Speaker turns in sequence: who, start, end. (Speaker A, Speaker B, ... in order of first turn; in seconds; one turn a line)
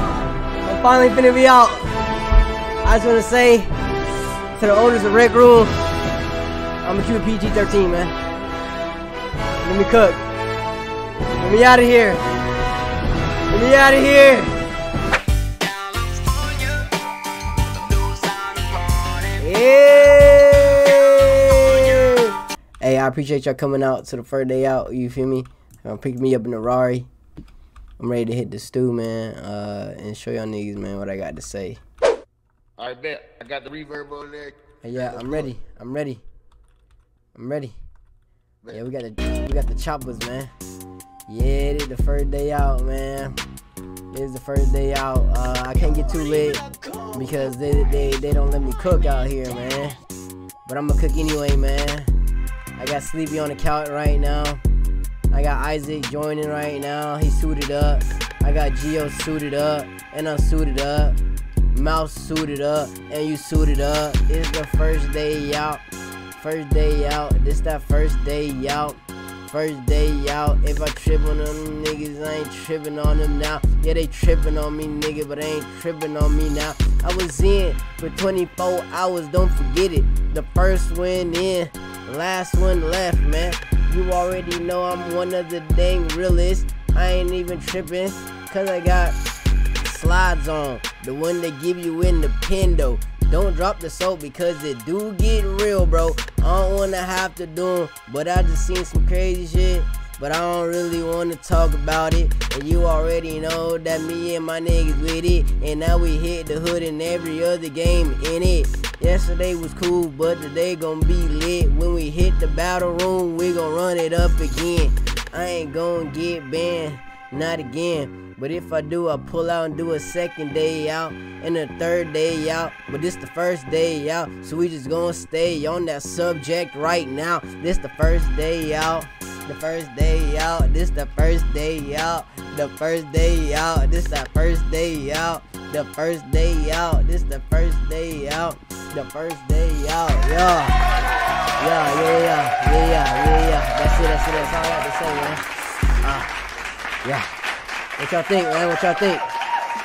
Speaker A: 0.6-1.9
Speaker A: 2.8-3.7
Speaker A: 4.5-5.8
Speaker A: 6.8-8.2
Speaker A: 9.6-10.2
Speaker A: 11.4-12.2
Speaker A: 13.5-14.6
Speaker B: 16.3-16.6
Speaker B: 17.8-19.0
Speaker A: 19.2-27.1
Speaker A: 28.0-31.8
Speaker B: 32.8-35.3
Speaker A: 34.8-36.2
Speaker A: 37.3-37.7
Speaker A: 38.7-40.5
Speaker A: 41.3-43.4
Speaker A: 44.1-50.0
Speaker B: 46.6-47.1
Speaker A: 50.6-52.1
Speaker A: 52.8-54.6
Speaker A: 55.3-61.2
Speaker A: 61.7-65.8
Speaker A: 66.3-89.2
Speaker A: 89.8-140.9
Speaker A: 141.5-146.3
Speaker A: 147.0-147.3
Speaker A: 148.0-149.3